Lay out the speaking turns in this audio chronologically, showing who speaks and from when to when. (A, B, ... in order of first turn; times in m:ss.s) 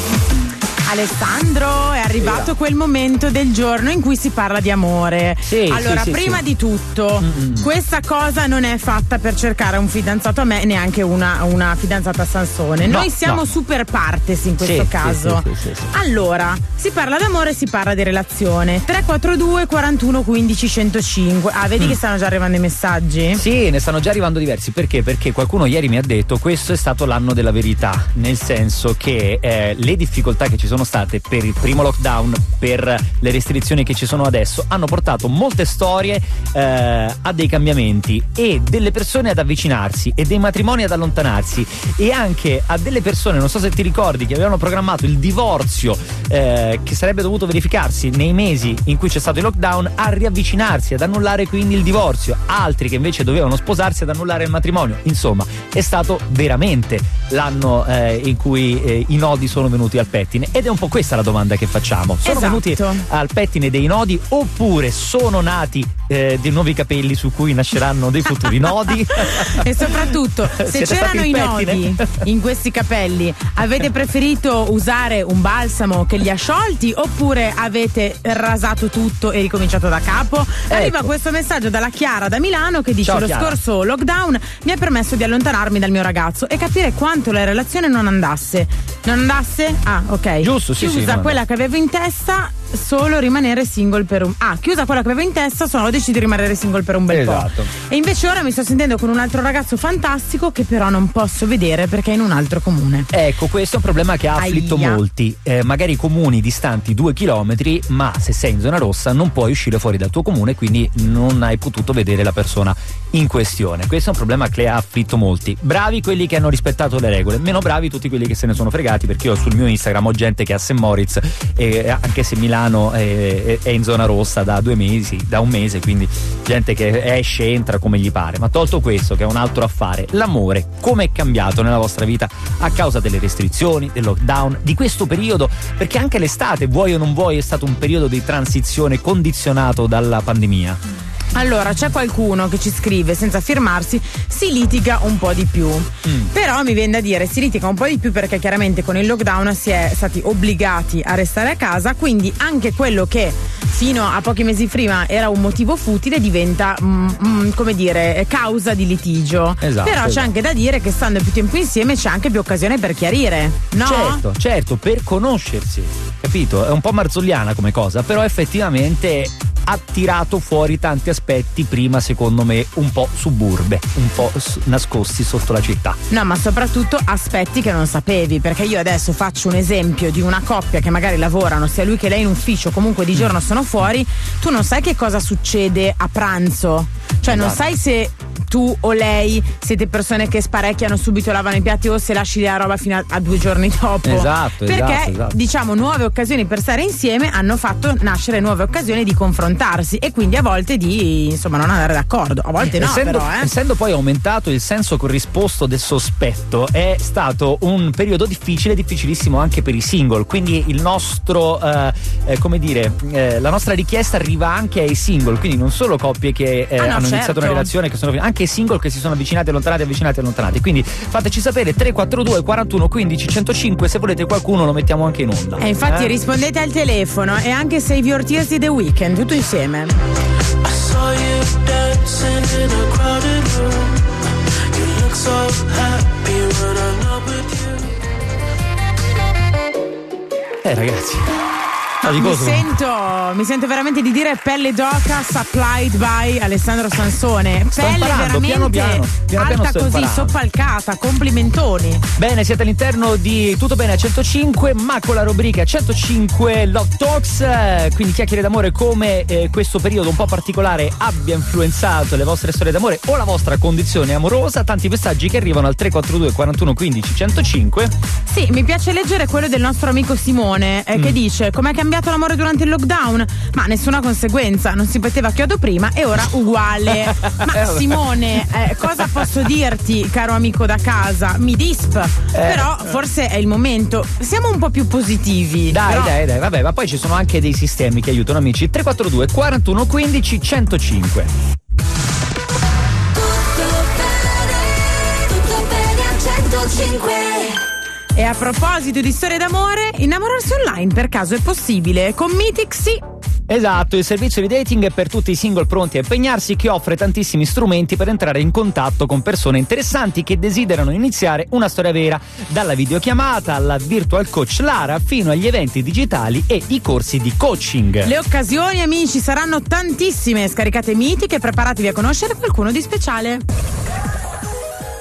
0:00.9-0:23.4 A
0:02.2-0:02.5 B
0:05.4-0:06.4 B
0:07.2-0:07.7 B
0:12.8-0:13.5 B
0:14.6-0:15.9 B
0:23.3-1:12.2 B
1:02.2-1:03.0 A
1:08.5-1:43.1 A
1:20.7-1:21.1 B
1:23.0-1:23.6 B
1:30.4-1:31.4 B
1:37.1-1:37.7 B
1:43.1-2:20.8 B
1:44.4-1:45.0 A
2:21.3-2:44.3 A
2:26.0-2:26.3 B
2:39.6-2:40.3 B
2:43.8-2:56.0 B
2:56.1-3:23.5 A
3:07.2-3:07.6 B
3:14.0-3:15.4 B
3:22.6-3:46.2 B
3:36.8-3:37.7 A
3:45.6-3:50.0 A
3:50.8-3:53.9 C
3:55.0-3:57.6 C
4:00.6-4:01.4 B
4:02.0-4:02.7 B
4:02.0-4:12.0 A
4:07.7-4:10.4 B
4:12.2-4:27.9 B
4:28.3-4:46.1 A
4:36.9-4:39.3 B
4:42.3-4:43.0 B
4:45.7-4:51.3 B
4:53.2-4:57.6 D
4:58.1-5:03.0 A
5:03.5-5:18.2 B
5:18.0-5:23.4 A